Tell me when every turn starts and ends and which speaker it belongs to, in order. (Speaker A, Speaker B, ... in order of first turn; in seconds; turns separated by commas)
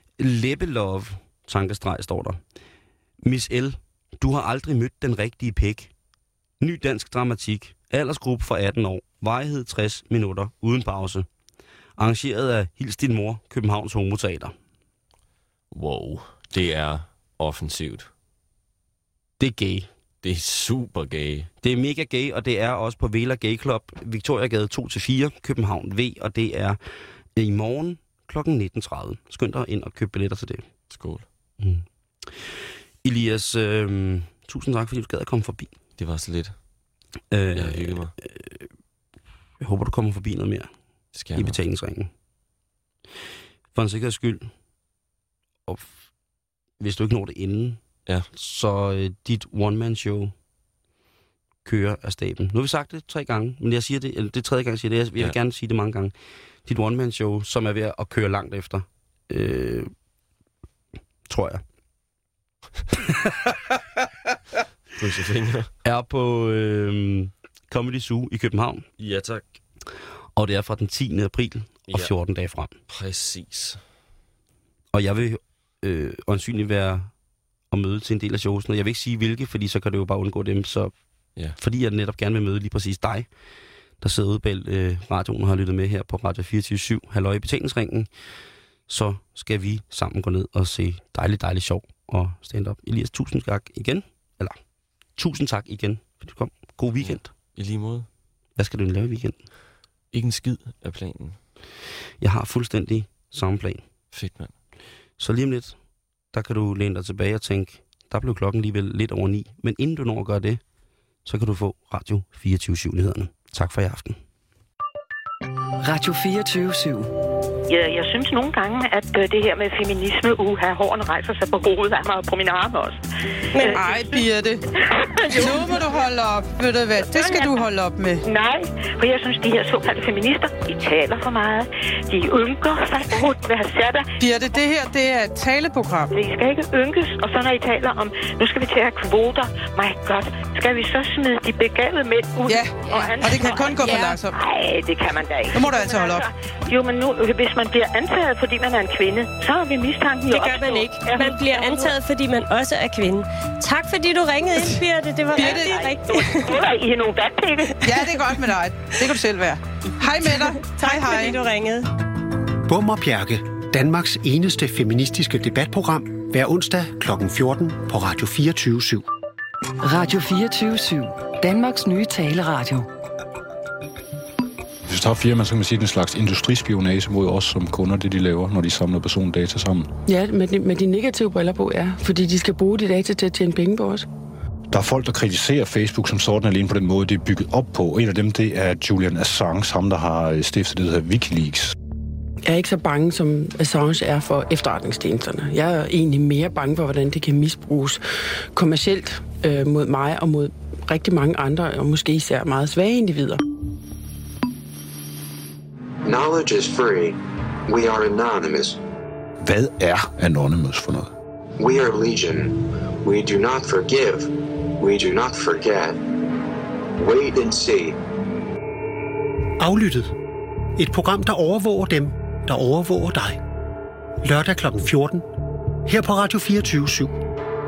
Speaker A: 0.2-2.4, Speaker A: 3.2-5.9, Speaker A: 6.6-11.3, Speaker A: 12.0-14.5, Speaker B: 15.7-18.1, Speaker A: 19.4-19.9, Speaker B: 20.2-21.5, Speaker A: 21.6-26.8, Speaker A: 27.4-30.6, Speaker B: 30.9-31.2, Speaker A: 31.6-31.8, Speaker A: 33.0-35.7, Speaker B: 36.0-36.5, Speaker A: 37.3-38.7, Speaker B: 37.5-38.1, Speaker A: 39.6-40.7, Speaker B: 41.1-41.6, Speaker A: 41.3-42.1, Speaker A: 43.7-44.5, Speaker A: 45.7-46.0, Speaker A: 46.8-47.8, Speaker A: 48.3-50.3, Speaker A: 51.6-56.1, Speaker A: 56.6-59.9, Speaker A: 61.3-61.6, Speaker A: 63.0-63.5, Speaker B: 64.9-65.7, Speaker A: 65.8-68.9, Speaker B: 69.0-69.5, Speaker A: 70.3-72.8, Speaker B: 72.9-73.8, Speaker A: 74.9-77.1, Speaker A: 77.7-80.9, Speaker A: 81.6-83.3, Speaker A: 84.0-88.1, Speaker A: 88.9-94.6, Speaker A: 95.2-97.3, Speaker B: 97.0-98.1, Speaker A: 98.6-99.4, Speaker B: 100.1-101.4, Speaker A: 102.2-103.8, Speaker B: 104.1-104.5, Speaker A: 105.2-105.8, Speaker A: 106.3-110.6, Speaker A: 111.2-114.2, Speaker C: 115.8-117.1, Speaker D: 117.7-126.1, Speaker E: 123.6-124.6, Speaker E: 125.3-128.2, Speaker D: 127.0-127.6, Speaker D: 128.2-134.1, Speaker E: 134.2-136.1, Speaker D: 136.1-151.9, Speaker E: 142.5-144.3, Speaker F: 143.5-144.1, Speaker E: 145.5-146.2, Speaker F: 150.3-156.5, Speaker E: 155.3-156.1, Speaker D: 155.4-158.0, Speaker E: 157.8-161.4, Speaker F: 160.6-161.9, Speaker G: 162.7-169.0, Speaker C: 169.8-172.8, Speaker H: 174.9-179.9, Speaker I: 180.1-184.1, Speaker H: 184.7-191.7, Speaker I: 192.5-203.4, Speaker J: 206.0-208.8, Speaker H: 209.4-211.1, Speaker J: 211.6-216.0, Speaker J: 217.0-218.0, Speaker G: 219.6-220.1, Speaker G: 220.8-223.4, Speaker G: 224.2-225.2, Speaker G: 225.8-227.1